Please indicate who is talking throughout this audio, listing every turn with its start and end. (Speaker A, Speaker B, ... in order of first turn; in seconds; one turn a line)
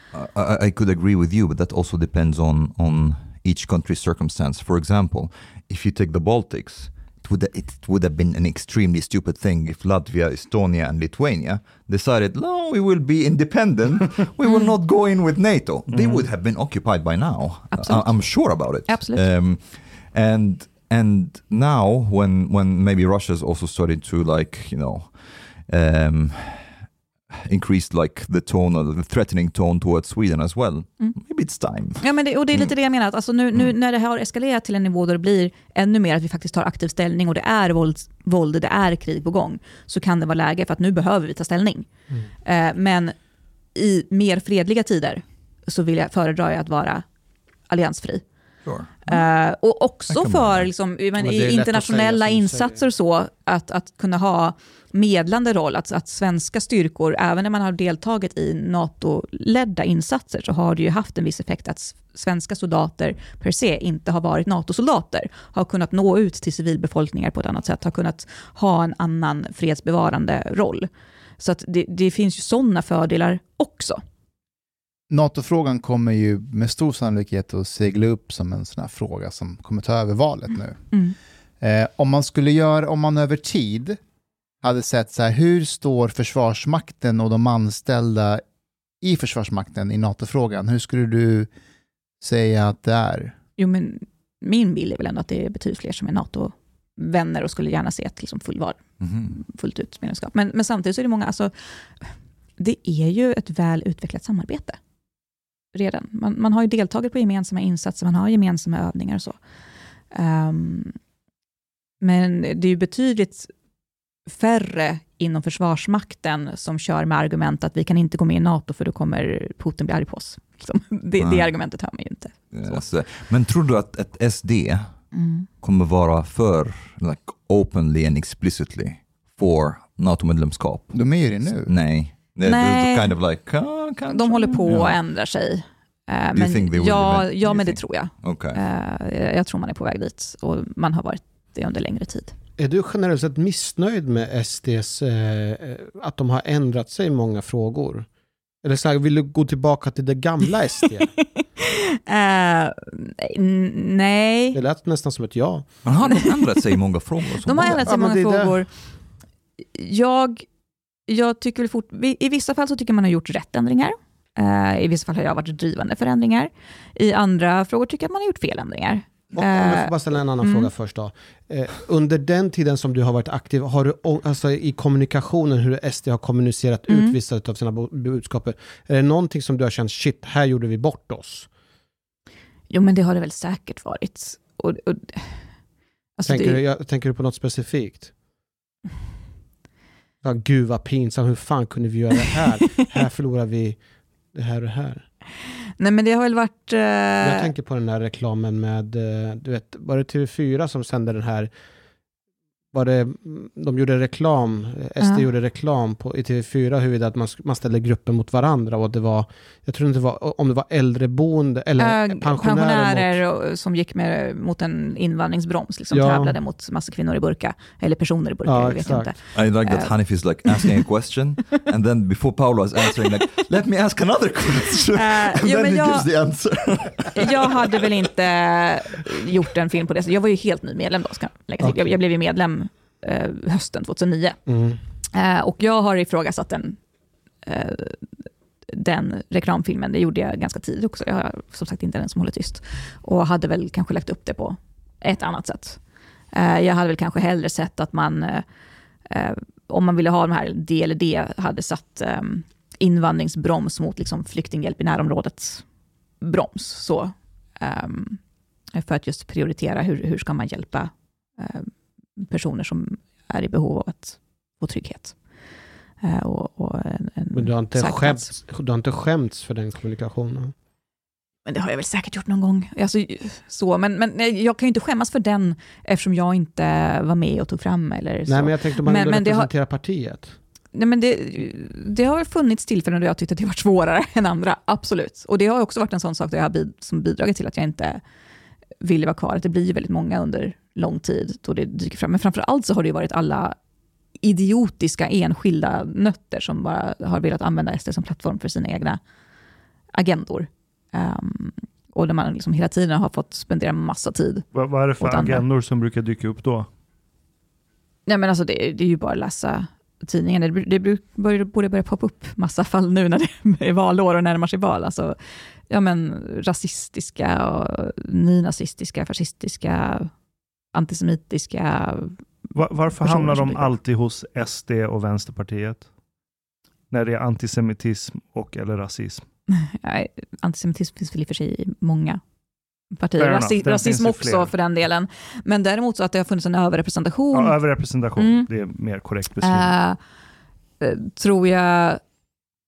Speaker A: 0.1-26.8
Speaker B: 14.4-14.7
Speaker C: 15.9-16.2
Speaker B: 17.7-19.3
Speaker A: 27.3-32.7
Speaker B: 32.0-41.9
Speaker B: 42.4-43.1
Speaker B: 43.7-47.0
Speaker B: 47.7-48.2
Speaker A: 48.6-49.1
Speaker B: 49.0-74.0
Speaker A: 50.1-50.7
Speaker D: 51.2-52.8
Speaker E: 75.1-80.8
Speaker E: 81.6-84.0
Speaker E: 84.6-88.4
Speaker E: 89.0-91.5
Speaker E: 92.2-93.3
Speaker B: 93.6-101.5
Speaker A: 99.0-99.4
Speaker B: 102.6-104.8
Speaker B: 105.7-109.4
Speaker B: 110.1-110.9
Speaker B: 112.0-113.5
Speaker B: 114.3-122.8
Speaker A: 121.2-121.5
Speaker A: 122.5-124.9
Speaker B: 125.1-125.5
Speaker A: 125.6-135.0
Speaker E: 130.9-131.7
Speaker B: 132.4-133.2
Speaker B: 134.1-142.3
Speaker A: 136.3-138.6
Speaker D: 142.6-148.1
Speaker D: 148.6-151.1
Speaker B: 151.4-154.6
Speaker D: 154.5-155.8
Speaker A: 155.8-157.9
Speaker B: 157.4-158.7
Speaker D: 157.8-158.6
Speaker B: 159.7-160.4
Speaker B: 161.1-170.7
Speaker D: 169.3-181.5
Speaker B: 176.9-177.2
Speaker B: 182.7-185.4
Speaker B: 186.2-186.6
Speaker D: 186.3-188.1
Speaker D: 190.2-193.8
Speaker D: 194.3-195.0
Speaker B: 195.8-197.5
Speaker D: 197.2-201.5
Speaker D: 202.7-213.2
Speaker B: 205.0-205.3
Speaker B: 211.8-219.9
Speaker D: 215.9-216.3
Speaker D: 218.4-219.1
Speaker A: 219.3-227.8
Speaker B: 220.4-220.8
Speaker B: 224.9-226.1
Speaker B: 227.1-234.4
Speaker D: 231.6-231.9
Speaker D: 234.5-234.8
Speaker B: 235.1-236.8
Speaker B: 237.4-238.1
Speaker B: 238.7-245.8
Speaker B: 246.3-248.4
Speaker B: 249.1-255.6
Speaker B: 256.2-258.2
Speaker B: 258.7-265.1
Speaker B: 266.0-268.3
Speaker D: 267.3-270.5
Speaker B: 271.4-279.5
Speaker D: 278.3-280.4
Speaker B: 280.7-288.0
Speaker B: 288.8-293.5
Speaker B: 294.2-299.0
Speaker B: 299.9-305.4
Speaker C: 304.5-306.7
Speaker B: 308.1-315.1
Speaker B: 315.7-320.1
Speaker B: 320.7-322.2
Speaker C: 322.5-325.9
Speaker B: 322.9-323.7
Speaker C: 326.9-329.2
Speaker B: 329.5-332.2
Speaker B: 333.0-337.6
Speaker C: 333.2-334.5
Speaker C: 337.3-339.7
Speaker B: 338.2-338.5
Speaker B: 339.4-340.0
Speaker B: 340.8-342.0